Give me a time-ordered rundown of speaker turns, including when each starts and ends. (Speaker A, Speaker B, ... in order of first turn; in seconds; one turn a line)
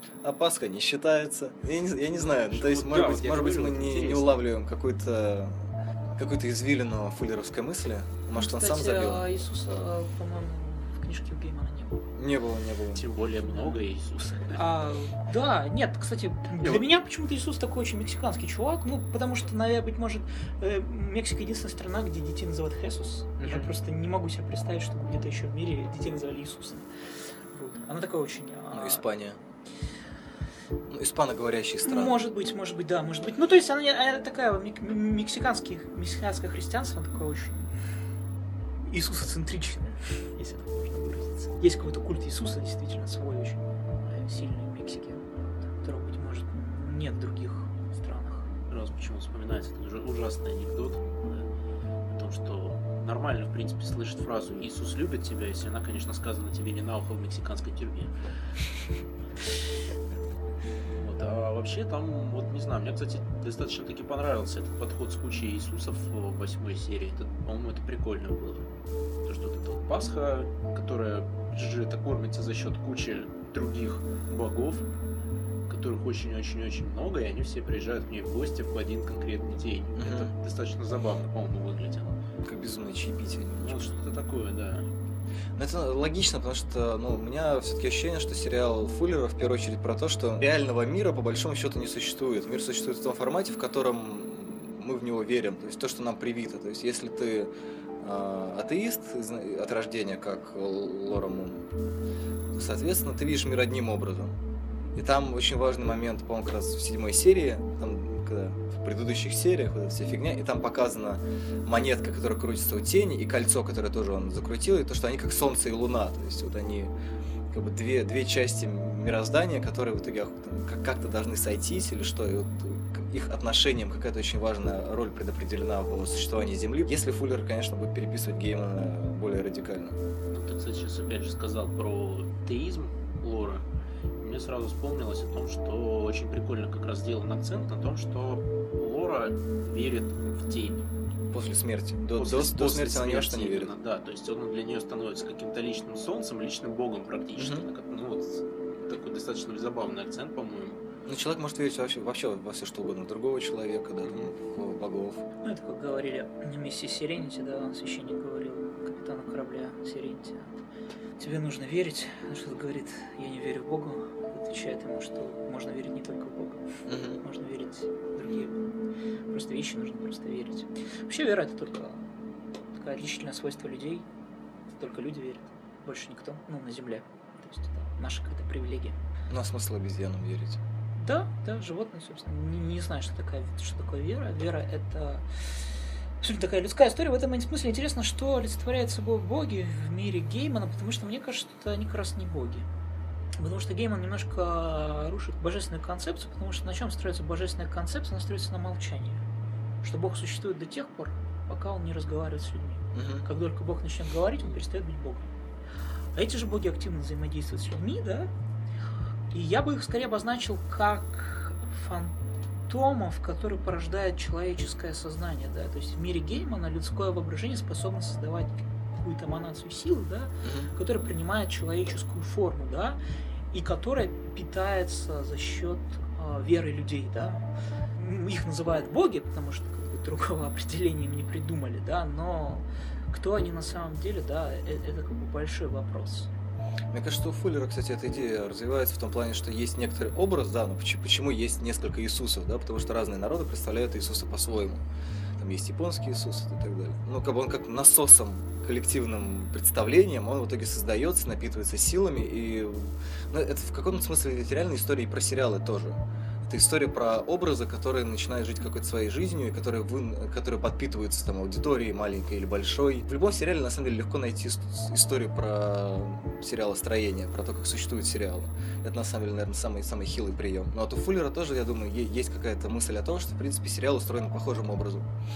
Speaker A: 0.2-9.3
Speaker B: 2.2-4.4
Speaker C: 8.3-12.1
Speaker A: 12.2-13.0
Speaker B: 12.9-14.6
Speaker C: 13.4-13.8
Speaker C: 14.5-29.1
Speaker A: 23.4-23.7
Speaker A: 28.7-29.4
Speaker A: 30.9-32.2
Speaker C: 31.9-37.8
Speaker C: 38.8-48.5
Speaker B: 48.7-51.5
Speaker B: 52.1-58.1
Speaker B: 61.0-68.7
Speaker B: 69.2-74.9
Speaker B: 75.7-82.2
Speaker A: 80.0-80.3
Speaker A: 82.4-83.9
Speaker B: 83.6-84.9
Speaker A: 85.6-101.7
Speaker A: 102.5-104.4
Speaker A: 105.0-116.9
Speaker A: 117.5-130.0
Speaker B: 130.3-133.6
Speaker B: 134.2-140.8
Speaker A: 141.3-143.7
Speaker B: 142.2-150.8
Speaker A: 147.4-147.7
Speaker A: 151.1-155.2
Speaker B: 154.0-154.3
Speaker C: 155.4-160.5
Speaker C: 161.2-166.7
Speaker A: 166.9-167.2
Speaker C: 167.2-168.6
Speaker C: 169.3-172.1
Speaker C: 172.7-174.1
Speaker C: 174.7-179.0
Speaker A: 179.3-180.6
Speaker C: 180.9-185.7
Speaker C: 186.2-192.7
Speaker C: 193.4-199.2
Speaker C: 199.8-205.3
Speaker A: 202.9-203.3
Speaker C: 206.2-208.3
Speaker C: 209.3-212.1
Speaker C: 212.7-223.0
Speaker A: 220.4-220.7
Speaker C: 223.5-227.4
Speaker C: 228.0-236.3
Speaker A: 236.9-244.8
Speaker A: 245.4-275.1